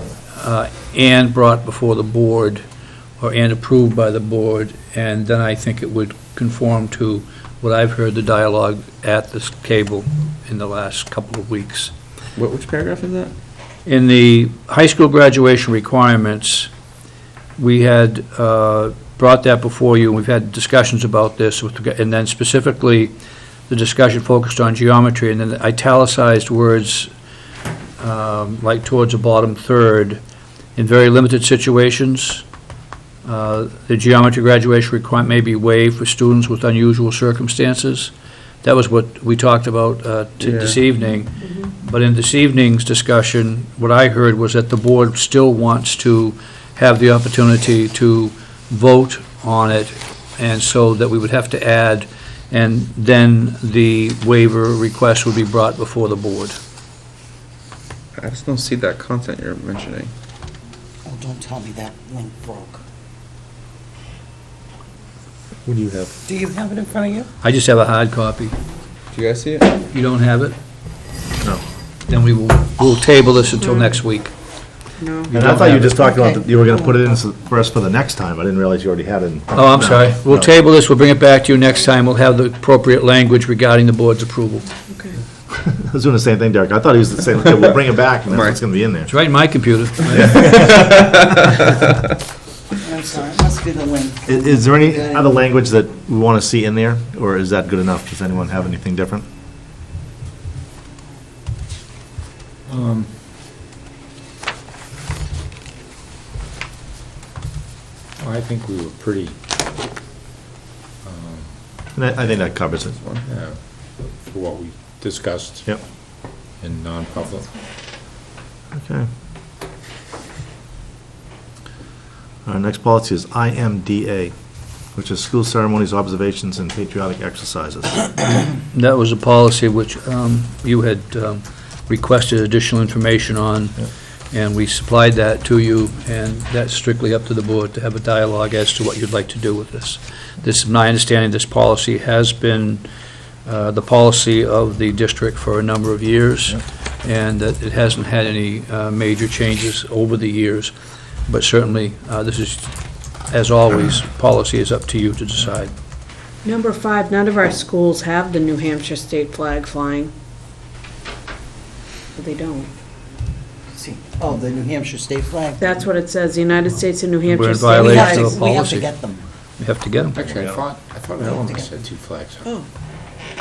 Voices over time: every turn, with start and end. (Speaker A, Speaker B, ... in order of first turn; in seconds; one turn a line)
Speaker A: 0.3-2.6
Speaker A: 3.2-11.9
Speaker B: 12.4-13.3
Speaker A: 13.8-16.7
Speaker A: 17.6-23.1
Speaker A: 23.7-27.1
Speaker A: 28.0-30.2
Speaker A: 30.8-32.4
Speaker A: 33.2-38.1
Speaker A: 38.6-56.6
Speaker B: 40.4-40.8
Speaker B: 58.1-60.1
Speaker C: 61.0-62.8
Speaker D: 65.6-66.2
Speaker C: 66.3-67.3
Speaker A: 67.4-68.5
Speaker B: 69.1-69.7
Speaker A: 69.9-70.5
Speaker A: 72.1-74.3
Speaker E: 75.0-75.3
Speaker A: 75.3-76.0
Speaker D: 75.3-80.5
Speaker C: 75.9-77.0
Speaker A: 79.5-84.7
Speaker E: 84.9-85.2
Speaker D: 85.5-89.1
Speaker B: 88.3-88.6
Speaker A: 89.1-90.6
Speaker D: 90.0-91.0
Speaker B: 90.5-91.3
Speaker C: 92.8-95.3
Speaker D: 94.3-99.2
Speaker F: 102.7-103.1
Speaker F: 108.2-109.3
Speaker F: 111.0-111.5
Speaker D: 111.9-113.0
Speaker F: 113.3-115.7
Speaker F: 116.6-117.5
Speaker D: 118.7-119.1
Speaker D: 122.4-124.3
Speaker D: 124.9-128.0
Speaker A: 128.7-142.8
Speaker A: 143.4-150.7
Speaker A: 151.3-152.7
Speaker A: 153.3-155.7
Speaker E: 156.4-160.1
Speaker E: 162.1-162.7
Speaker C: 163.7-165.8
Speaker E: 165.6-168.4
Speaker A: 167.2-168.9
Speaker C: 167.7-169.2
Speaker A: 169.6-170.2
Speaker F: 170.1-172.5
Speaker D: 170.3-170.6
Speaker C: 171.3-171.7